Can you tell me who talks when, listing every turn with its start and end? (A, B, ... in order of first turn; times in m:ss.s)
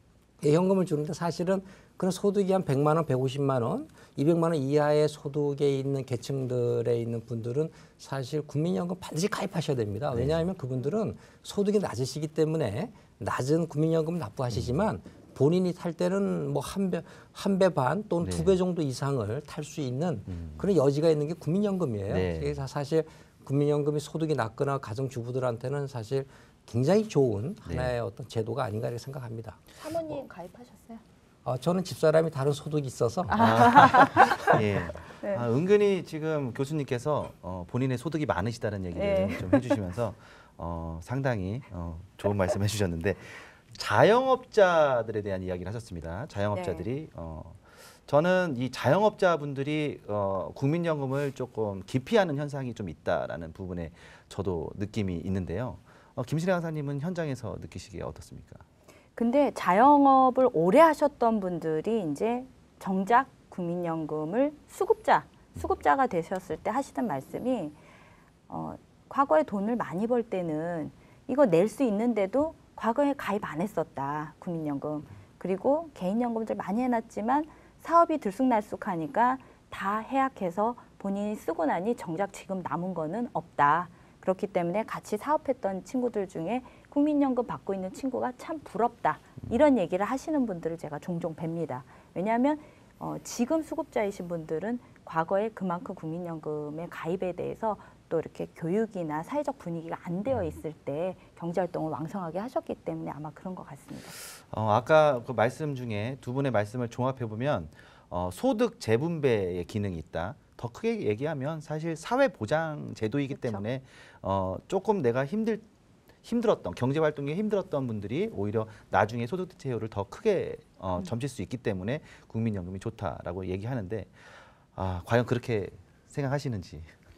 0:00.4-0:29.6 A
0:10.1-0:10.5 B
0:14.5-0:14.8 B
0:18.2-0:18.6 B
0:20.3-0:20.6 B
0:22.1-0:22.6 B
0:27.6-0:27.9 B
0:29.8-0:31.0 C
0:31.4-0:34.1 A
0:33.3-0:35.4 C
0:33.4-0:58.6 B
0:39.0-0:39.8 C
0:46.5-0:46.9 C
0:59.2-1:07.8 C
1:08.5-1:44.2 C
1:44.5-1:55.6 B
1:53.3-1:53.6 C
1:56.2-2:04.1 B
2:04.8-2:06.9 B